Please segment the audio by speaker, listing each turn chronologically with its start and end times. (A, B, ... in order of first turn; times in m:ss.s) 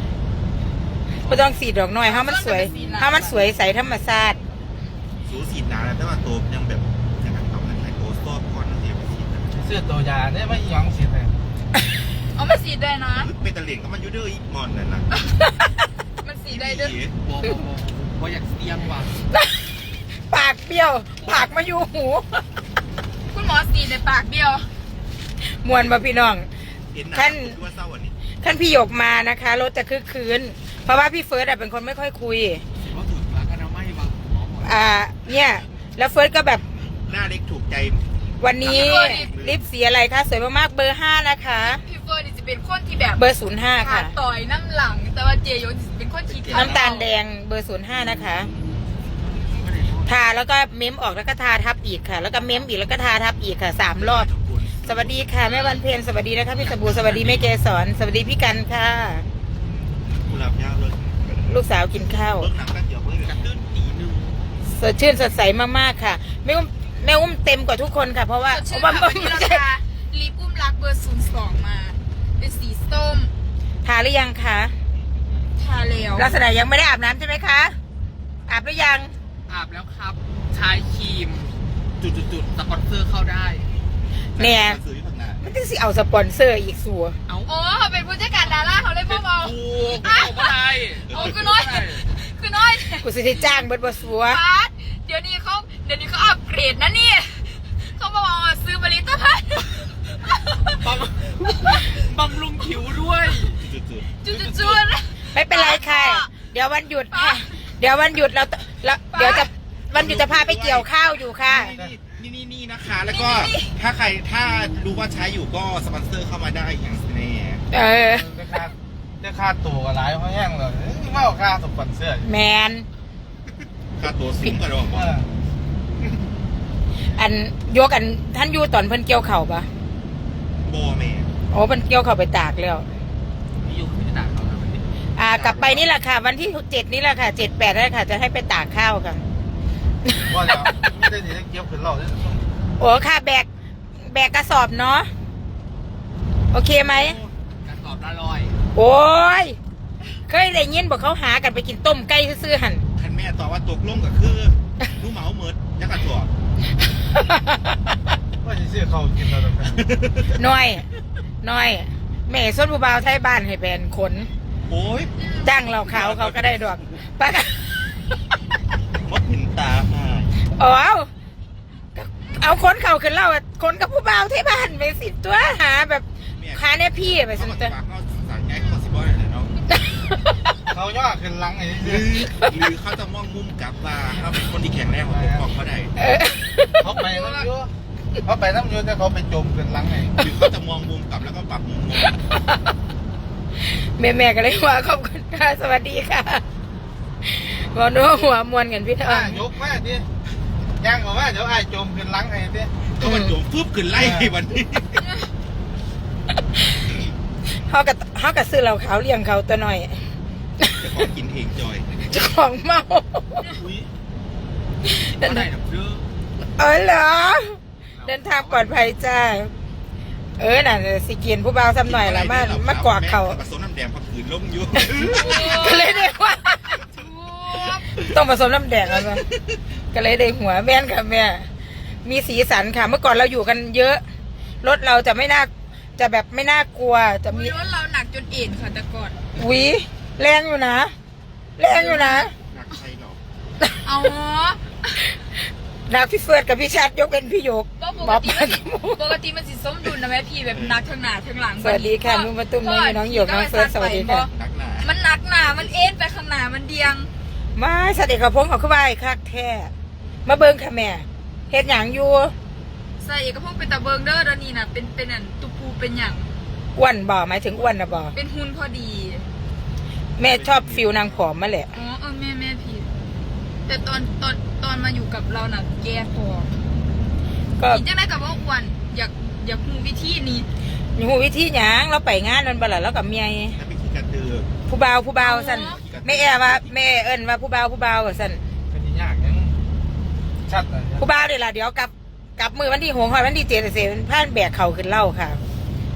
0:01.2-0:04.4 A
0:02.0-0:03.5 B
0:02.7-0:03.0 C
0:05.2-0:09.6 D
0:09.6-0:11.3 E
0:12.3-0:13.3 B
0:13.2-0:15.1 D
0:15.1-0:15.7 B
0:16.2-0:17.0 B
0:16.5-0:17.2 D
0:17.1-0:19.2 C
0:20.3-0:22.4 A
0:23.3-0:24.7 B
0:25.4-0:26.5 A
0:26.9-0:28.2 D
0:27.1-0:27.6 A
0:28.4-0:32.6 A
0:32.8-0:34.8 C
0:34.6-0:36.6 A
0:37.0-0:38.0 D
0:38.4-0:41.8 A
0:38.6-0:39.6 D
0:38.6-0:39.3 B
0:41.7-0:43.2 B
0:43.2-0:44.1 A
0:43.8-0:47.1 B
0:46.3-0:46.9 D
0:46.5-0:48.5 A
0:49.0-0:50.1 C
0:50.0-0:54.3 A
0:54.0-0:55.3 D
0:54.8-0:59.2 A
0:56.6-0:57.4 D
1:00.1-1:01.2 D
1:01.4-1:02.5 A
1:02.2-1:03.5 D
1:03.2-1:04.4 C
1:04.7-1:09.6 A
1:08.5-1:13.3 B
1:13.8-1:14.7 A
1:15.6-1:16.4 B
1:16.2-1:17.8 A
1:18.5-1:19.1 A
1:19.5-1:23.7 C
1:24.4-1:24.8 A
1:24.4-1:25.4 D
1:25.4-1:27.2 A
1:27.5-1:40.8 B
1:29.1-1:32.2 C
1:29.3-1:30.4 D
1:31.1-1:31.4 D
1:33.0-1:34.4 A
1:40.8-1:43.6 C
1:43.5-1:44.1 D
1:44.2-1:46.3 B
1:44.2-1:44.8 C
1:45.3-1:51.7 A
1:47.1-1:47.6 B
1:49.1-1:49.5 B
1:49.9-1:50.9 D
1:51.4-1:57.6 D
1:53.1-1:53.7 B
1:57.7-1:58.3 A
1:58.1-2:02.3 E
2:02.2-2:02.9 A
2:04.0-2:05.2 D
2:04.9-2:05.3 E
2:07.2-2:09.7 A
2:10.6-2:11.3 D
2:11.5-2:12.9 A
2:13.6-2:15.9 C
2:15.2-2:19.2 A
2:20.0-2:20.7 A
2:20.3-2:22.4 E
2:22.8-2:25.1 A
2:26.5-2:27.2 A
2:26.8-2:27.3 D
2:27.6-2:28.6 C
2:28.8-2:29.6 A
2:30.3-2:32.8 A
2:33.0-2:36.3 D
2:37.1-2:37.8 A
2:38.4-2:39.8 E
2:39.7-2:40.4 D
2:40.3-2:40.9 A
2:41.4-2:44.3 A
2:44.7-2:45.2 D
2:45.4-2:48.0 A
2:45.7-2:47.0 D
2:49.0-2:50.3 D
2:50.5-2:51.1 A
2:52.0-2:57.8 A
2:56.4-2:59.6 D
2:59.7-3:00.5 A
3:00.7-3:02.2 E
3:01.8-3:06.0 D
3:05.0-3:05.5 E
3:06.0-3:06.9 A
3:06.8-3:07.7 E
3:06.9-3:07.5 B
3:08.3-3:10.1 E
3:10.2-3:12.2 D
3:12.0-3:12.6 A
3:13.7-3:16.4 A
3:17.2-3:19.4 A
3:19.0-3:20.1 E
3:20.8-3:22.7 E
3:23.0-3:25.1 D
3:23.0-3:23.4 A
3:23.9-3:24.3 E
3:25.0-3:25.3 B
3:27.6-3:30.1 A
3:30.8-3:31.9 D
3:32.0-3:33.5 A
3:33.4-3:33.9 C
3:34.9-3:35.5 A
3:35.0-3:36.1 C
3:36.6-3:39.5 A
3:37.9-3:38.9 C
3:40.4-3:43.4 A
3:41.8-3:45.8 D
3:44.8-3:46.8 A
3:44.9-3:46.1 B
3:46.9-3:47.9 B
3:48.0-3:49.3 A
3:49.9-3:51.5 A
3:52.0-3:54.0 A
3:54.6-3:57.6 A
3:57.2-3:59.2 B
3:59.4-4:00.9 A
4:01.6-4:02.3 A
4:01.7-4:02.3 B
4:02.4-4:03.2 D
4:03.8-4:05.0 B
4:05.9-4:09.0 A
4:07.8-4:17.1 B
4:10.5-4:10.8 D
4:11.6-4:14.3 A
4:14.3-4:14.9 D
4:17.6-4:19.7 A
4:20.2-4:22.4 A
4:23.0-4:26.3 B
4:26.8-4:28.2 A
4:28.1-4:29.3 B
4:30.2-4:31.7 A
4:30.2-4:31.3 D
4:31.7-4:32.9 B
4:33.7-4:36.6 B
4:37.6-4:37.8 A
4:37.7-4:40.5 B
4:41.0-4:43.6 A
4:43.6-4:44.5 D
4:44.7-4:48.4 A
4:45.2-4:45.8 B
4:45.5-4:46.8 D
4:48.7-4:49.6 E
4:50.5-4:51.1 E
4:51.0-4:55.4 A